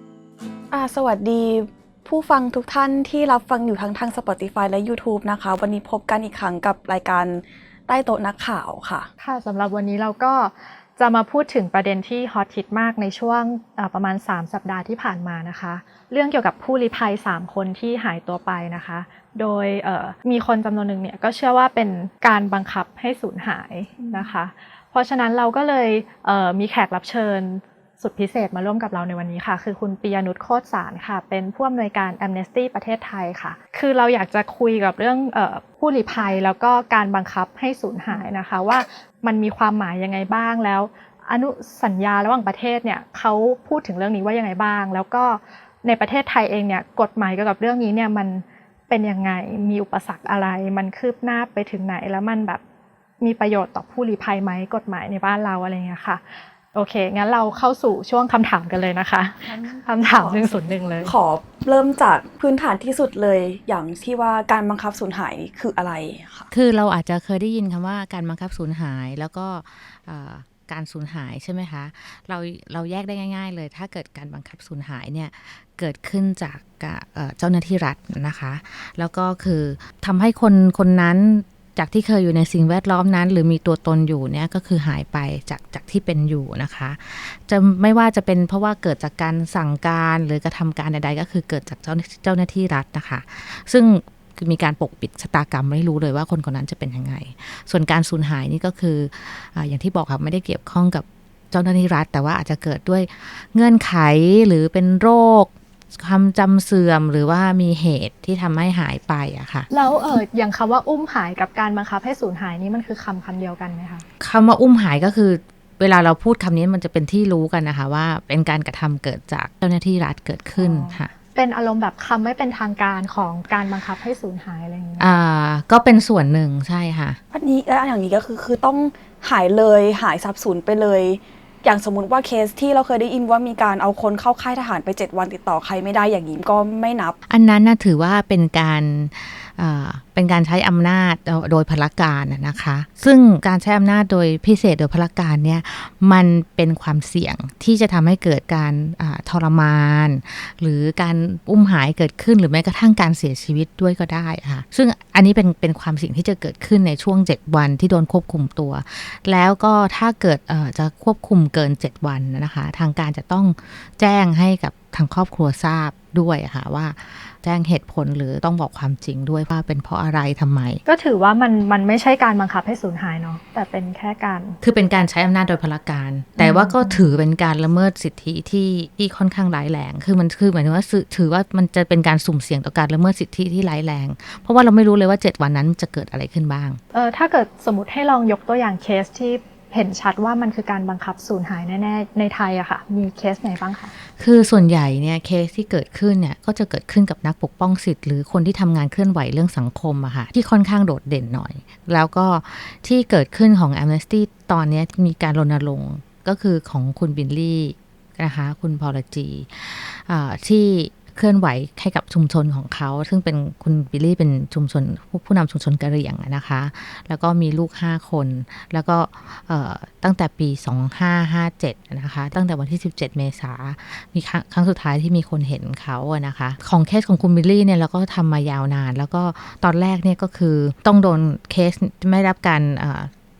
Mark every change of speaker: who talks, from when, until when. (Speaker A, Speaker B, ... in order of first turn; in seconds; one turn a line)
Speaker A: 0.7-9.1
Speaker B: 9.2-52.6
Speaker B: 53.2-61.1
Speaker A: 59.5-66.5
Speaker C: 66.5-109.7
Speaker B: 109.7-114.0
Speaker C: 114.2-121.1
Speaker B: 121.3-125.1
Speaker C: 125.0-127.2
Speaker A: 127.3-137.2
Speaker C: 137.3-170.8
Speaker B: 170.8-174.6
Speaker C: 174.6-186.8
Speaker B: 176.4-177.0
Speaker B: 186.9-193.9
Speaker C: 194.2-233.1